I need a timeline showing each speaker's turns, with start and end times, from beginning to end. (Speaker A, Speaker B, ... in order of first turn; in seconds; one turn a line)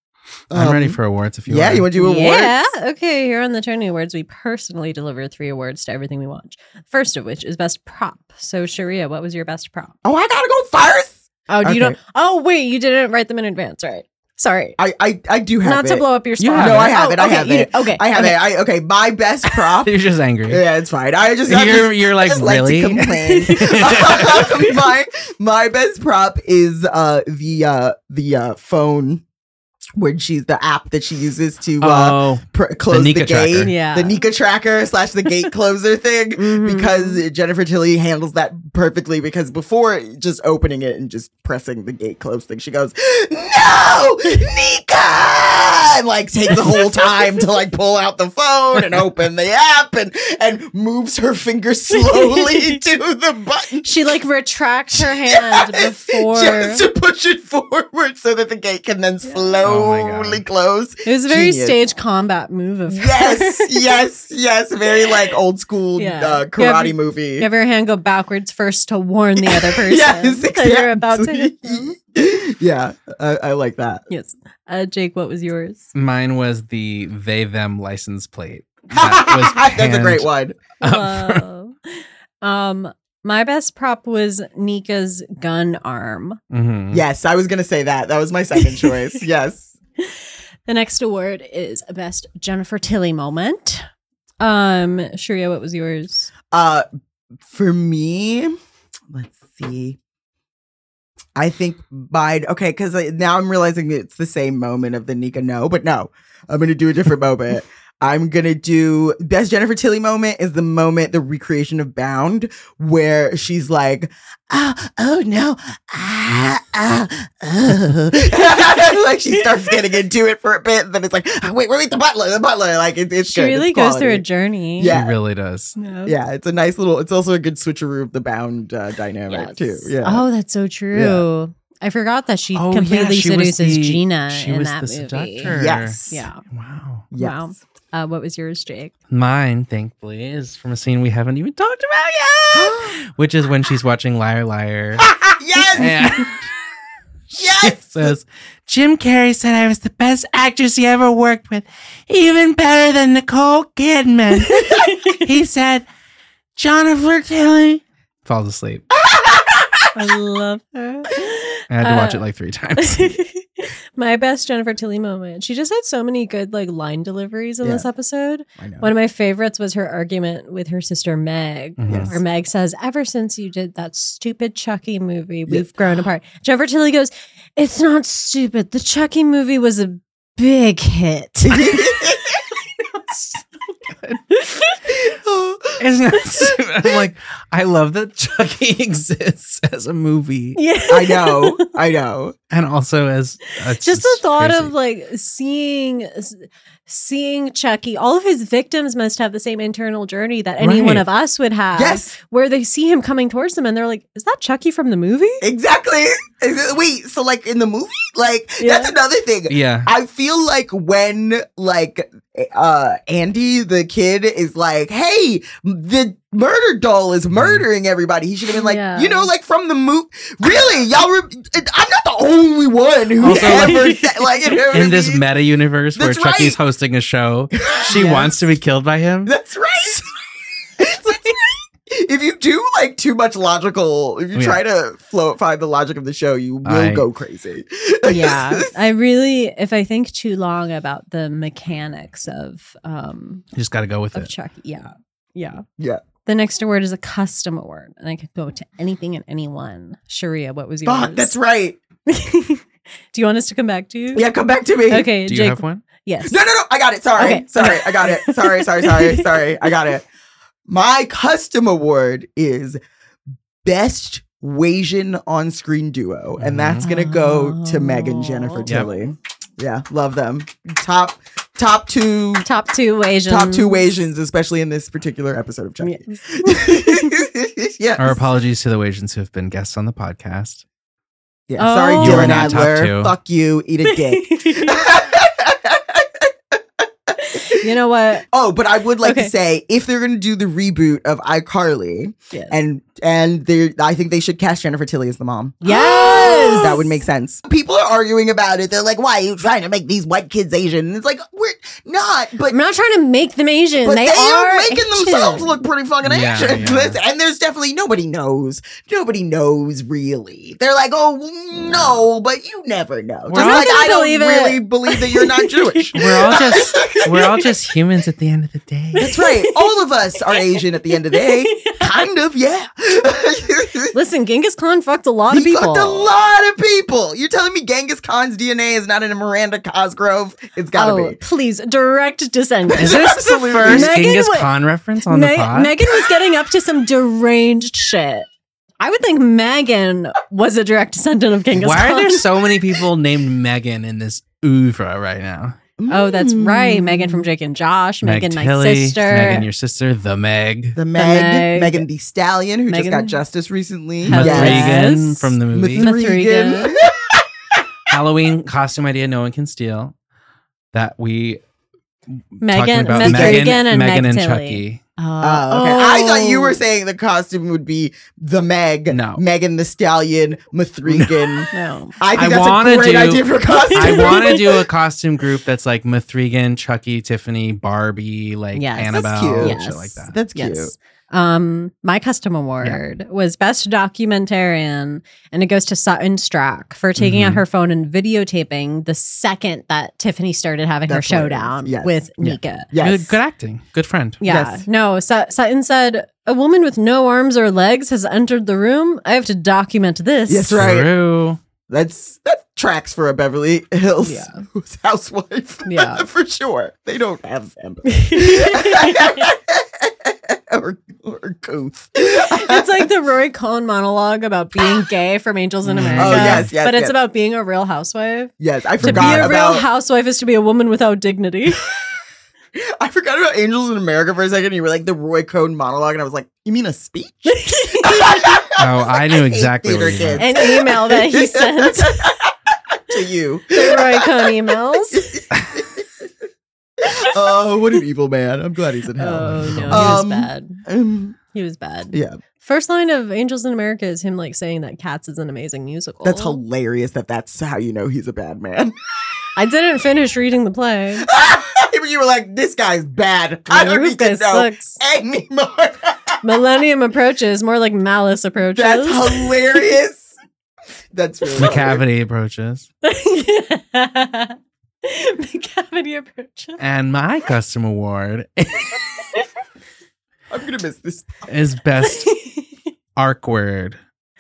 Speaker A: 0.5-2.7
Speaker B: 0.5-1.9
Speaker C: 2.0-9.9
Speaker A: 10.0-12.0
Speaker C: 11.5-14.8
Speaker A: 14.8-19.9
Speaker C: 15.6-18.4
Speaker B: 16.4-16.9
Speaker B: 19.8-20.6
Speaker A: 20.5-29.2
Speaker B: 21.5-24.7
Speaker C: 23.2-24.6
Speaker A: 30.0-53.9
Speaker B: 31.8-33.7
Speaker C: 33.6-34.2
Speaker C: 36.4-37.2
Speaker C: 52.0-52.8
Speaker C: 53.8-56.9
Speaker A: 55.0-61.8
Speaker B: 59.6-60.4
Speaker C: 61.1-64.0
Speaker A: 62.9-67.5
Speaker C: 66.0-72.0
Speaker A: 69.4-74.0
Speaker C: 74.1-75.9
Speaker B: 76.0-80.3
Speaker A: 78.9-80.6
Speaker C: 80.8-86.4
Speaker B: 80.8-81.4
Speaker B: 86.5-87.0
Speaker A: 86.9-89.7
Speaker C: 88.6-88.9
Speaker C: 90.0-93.9
Speaker C: 94.4-96.3
Speaker A: 96.5-96.9
Speaker A: 97.5-98.6
Speaker A: 99.1-100.0
Speaker A: 101.4-124.2
Speaker C: 123.2-125.0
Speaker A: 124.8-125.2
Speaker B: 124.9-125.8
Speaker C: 125.8-126.1
Speaker A: 126.1-130.2
Speaker C: 129.3-135.5
Speaker B: 132.6-137.1
Speaker A: 135.5-136.3
Speaker C: 136.1-136.4
Speaker A: 137.1-137.5
Speaker C: 137.2-138.9
Speaker B: 139.1-145.1
Speaker A: 142.5-143.0
Speaker A: 145.0-146.3
Speaker B: 145.7-146.5
Speaker B: 147.3-155.9
Speaker A: 147.4-148.1
Speaker C: 154.4-155.2
Speaker B: 156.6-158.8
Speaker A: 159.0-159.8
Speaker C: 159.9-162.2
Speaker B: 161.7-163.2
Speaker C: 162.8-182.4
Speaker A: 167.6-167.9
Speaker A: 168.6-168.9
Speaker B: 171.8-172.2
Speaker A: 171.9-172.2
Speaker A: 181.4-182.5
Speaker C: 184.3-184.8
Speaker A: 184.9-185.8
Speaker B: 185.8-190.6
Speaker C: 190.6-191.7
Speaker A: 190.9-192.3
Speaker B: 192.5-194.7
Speaker C: 193.8-205.4
Speaker B: 200.6-201.1
Speaker A: 201.8-202.1
Speaker A: 205.4-225.2
Speaker C: 208.6-208.9
Speaker B: 209.5-209.9
Speaker B: 217.3-217.7
Speaker C: 218.5-219.3
Speaker B: 223.2-224.0
Speaker C: 223.3-224.0
Speaker B: 224.7-229.3
Speaker A: 226.0-226.6
Speaker A: 227.6-228.3
Speaker C: 227.9-228.3
Speaker A: 229.2-230.1
Speaker A: 230.8-238.7
Speaker B: 234.3-234.6
Speaker B: 236.6-237.1
Speaker C: 238.1-243.5
Speaker B: 243.6-244.3
Speaker C: 244.1-245.6
Speaker A: 245.8-246.0
Speaker C: 246.2-251.4
Speaker A: 250.8-251.8
Speaker C: 252.1-254.3
Speaker A: 254.1-255.1
Speaker C: 254.9-256.4
Speaker B: 255.2-255.8
Speaker A: 256.2-260.1
Speaker C: 257.2-259.7
Speaker A: 260.7-262.8
Speaker A: 263.6-272.5
Speaker B: 266.4-266.8
Speaker C: 266.8-268.7
Speaker C: 272.4-273.8
Speaker A: 273.3-278.2
Speaker C: 275.8-277.1
Speaker B: 278.0-280.6
Speaker A: 281.5-287.7
Speaker C: 281.6-282.7
Speaker B: 282.0-283.1
Speaker C: 283.9-284.8
Speaker C: 287.2-288.3
Speaker A: 288.3-302.6
Speaker C: 289.0-289.3
Speaker C: 295.6-297.0
Speaker C: 302.5-305.6
Speaker A: 303.8-317.4
Speaker B: 306.0-307.0
Speaker C: 311.6-312.0
Speaker B: 313.3-313.9
Speaker C: 313.3-317.5
Speaker B: 315.9-319.1
Speaker C: 319.0-319.7
Speaker A: 319.0-324.0
Speaker C: 320.3-322.0
Speaker C: 323.9-326.1
Speaker A: 325.3-331.2
Speaker C: 330.7-334.5
Speaker A: 332.7-333.9
Speaker B: 332.8-335.7
Speaker C: 335.1-338.3
Speaker C: 338.8-342.5
Speaker B: 341.6-345.6
Speaker A: 345.8-347.3
Speaker C: 345.9-349.5
Speaker B: 348.0-350.8
Speaker A: 350.8-354.7
Speaker C: 350.9-351.9
Speaker C: 352.7-353.2
Speaker B: 354.1-355.9
Speaker C: 354.1-356.8
Speaker A: 355.5-357.6
Speaker B: 357.9-359.9
Speaker B: 360.7-361.4
Speaker B: 362.1-364.8
Speaker C: 362.4-366.6
Speaker A: 362.9-363.6
Speaker A: 365.2-374.5
Speaker B: 368.9-369.2
Speaker B: 370.9-371.5
Speaker C: 371.5-372.0
Speaker B: 372.1-380.1
Speaker C: 373.7-374.6
Speaker C: 378.5-392.7
Speaker A: 378.9-380.7
Speaker B: 387.0-387.4
Speaker A: 390.9-391.9
Speaker B: 392.2-394.2
Speaker A: 392.7-393.1
Speaker C: 394.2-400.6
Speaker A: 394.2-394.6
Speaker A: 400.3-400.9
Speaker B: 400.5-401.4
Speaker A: 401.7-412.9
Speaker C: 404.0-404.4
Speaker C: 405.7-406.1
Speaker C: 407.9-409.3
Speaker C: 412.3-421.6
Speaker B: 415.6-416.5
Speaker A: 415.9-416.9
Speaker A: 418.4-419.7
Speaker B: 418.8-419.3
Speaker A: 422.6-436.1
Speaker C: 427.3-428.2
Speaker B: 428.6-430.2
Speaker C: 430.2-432.1
Speaker C: 433.5-435.1
Speaker A: 436.8-441.2
Speaker C: 439.0-440.6
Speaker B: 439.2-439.9
Speaker C: 441.3-446.4
Speaker A: 441.9-442.2
Speaker A: 446.0-448.7
Speaker C: 449.4-451.1
Speaker A: 451.1-456.2
Speaker C: 453.5-454.8
Speaker C: 456.2-459.6
Speaker A: 458.6-460.1
Speaker A: 460.9-461.8
Speaker B: 461.4-462.7
Speaker C: 462.8-466.6
Speaker B: 466.6-468.9
Speaker A: 470.3-471.3
Speaker B: 471.3-472.1
Speaker C: 471.8-472.5
Speaker B: 473.0-473.8